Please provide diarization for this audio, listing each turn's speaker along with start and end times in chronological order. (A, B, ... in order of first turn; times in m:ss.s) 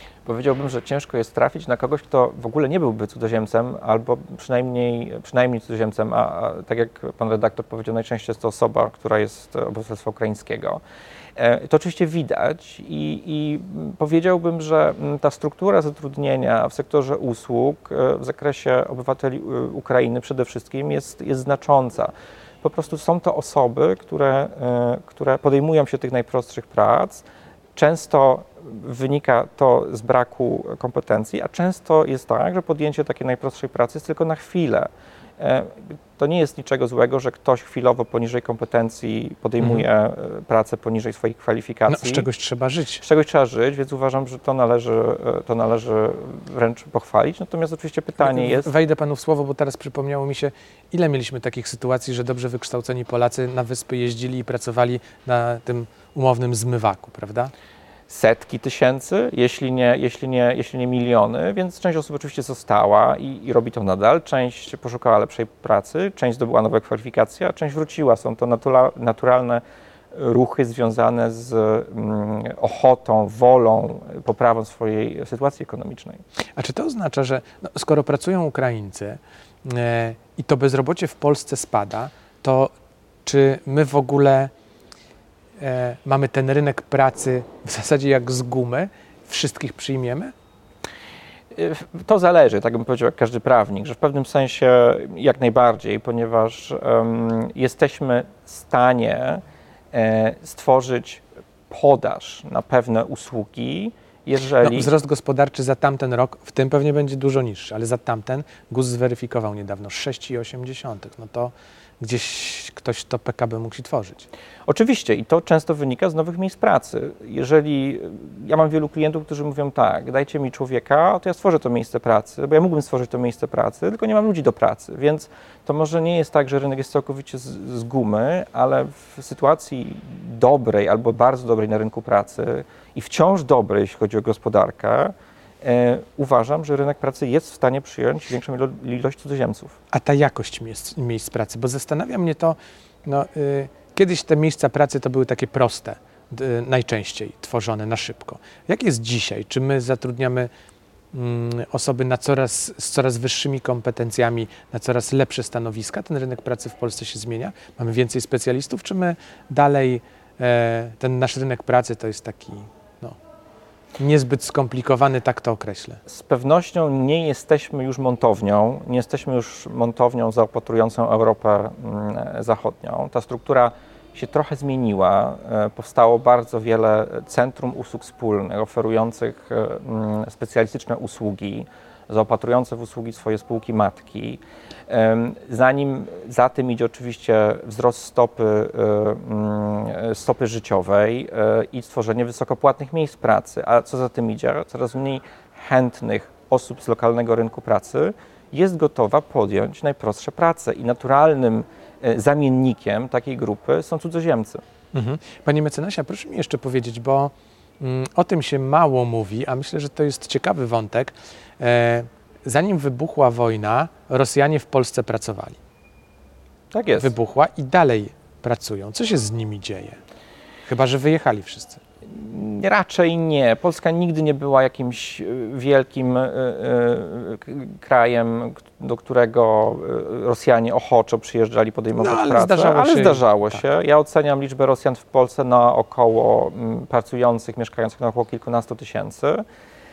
0:00.2-0:10.8 A
0:11.4-0:27.2 A
0:27.8-0:42.3 A
0:39.6-0:39.8 B
0:41.9-0:43.0 B
0:43.0-0:48.7 A
0:48.2-0:57.5 B
0:58.1-1:09.6 A
1:10.1-1:16.2 A
1:16.6-1:22.7 B
1:23.2-1:24.5 B
1:25.6-1:30.3 B
1:31.5-1:39.4 A
1:39.9-1:44.9 A
1:44.6-1:54.2 B
1:54.7-2:19.8 A
2:19.9-2:30.5 B
2:31.1-2:43.2 B
2:44.0-2:46.0 B
2:46.1-3:24.6 A
3:24.9-3:35.6 B
3:36.7-3:37.1 A
3:37.0-3:40.0 B
3:40.6-3:41.8 B
3:42.1-3:59.4 A
3:51.9-3:53.6 B